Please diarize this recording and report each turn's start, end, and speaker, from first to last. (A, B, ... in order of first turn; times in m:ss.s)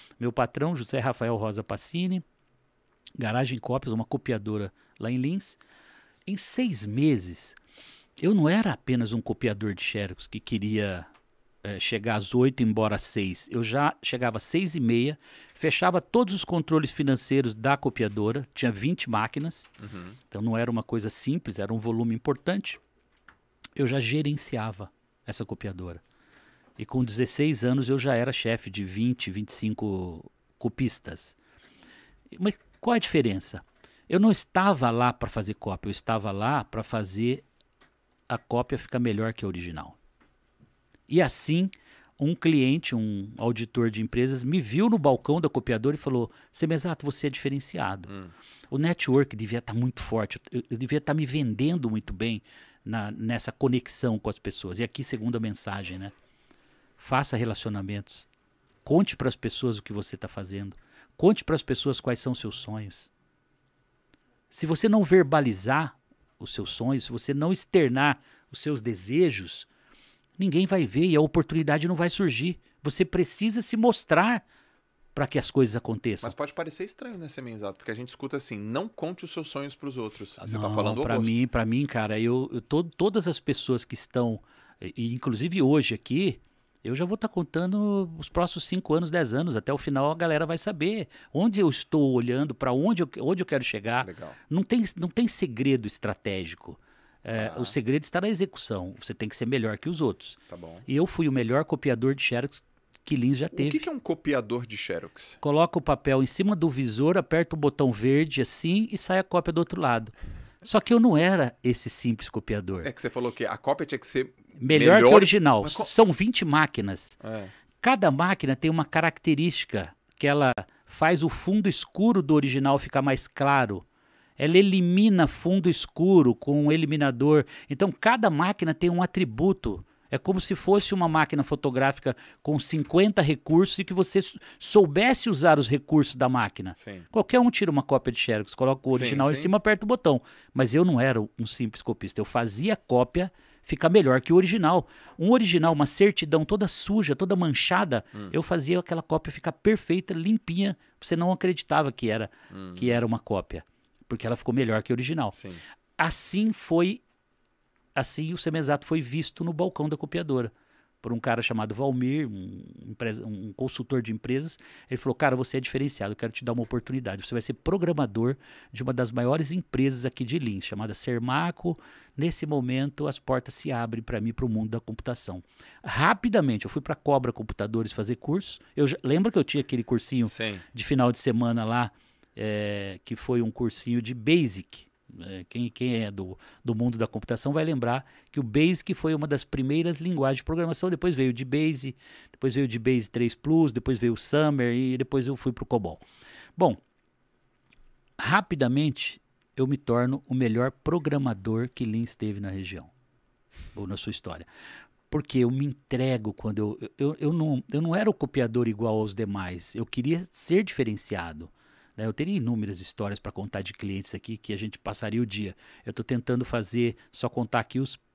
0:00.2-0:02.2 A
0:03.2-0:05.6 A
0:06.2-0:07.6 A
0:08.2-0:11.1 A
0:11.6-0:19.7 A
0:19.8-0:20.1 B
0:20.3-0:22.8 A
0:23.8-0:26.0 A
0:26.8-0:31.4 A
0:32.3-0:37.4 A
0:38.3-0:40.0 A
0:41.1-0:48.1 A
0:48.7-0:56.1 A
0:57.0-0:58.3 A
0:58.8-1:03.1 A
1:04.5-1:09.7 A
1:10.4-1:14.4 A
1:15.1-1:16.3 A
1:16.2-1:21.4 B
1:20.4-1:43.8 A
1:34.0-1:34.4 B
1:37.3-1:37.7 B
1:40.5-1:40.8 B
1:43.5-1:45.4 B
1:45.4-1:52.9 A
1:52.8-1:55.9 B
1:54.6-1:57.2 A
1:57.2-1:57.5 B
1:57.8-2:03.8 A
2:04.4-2:35.4 A
2:16.8-2:17.1 B
2:18.9-2:19.5 B
2:32.5-2:33.0 B
2:35.3-2:35.6 B
2:36.0-2:37.0 A
2:38.0-3:16.0 A
3:00.3-3:00.6 B
3:18.2-3:22.9 A
3:23.7-3:24.5 A
3:25.1-3:38.0 A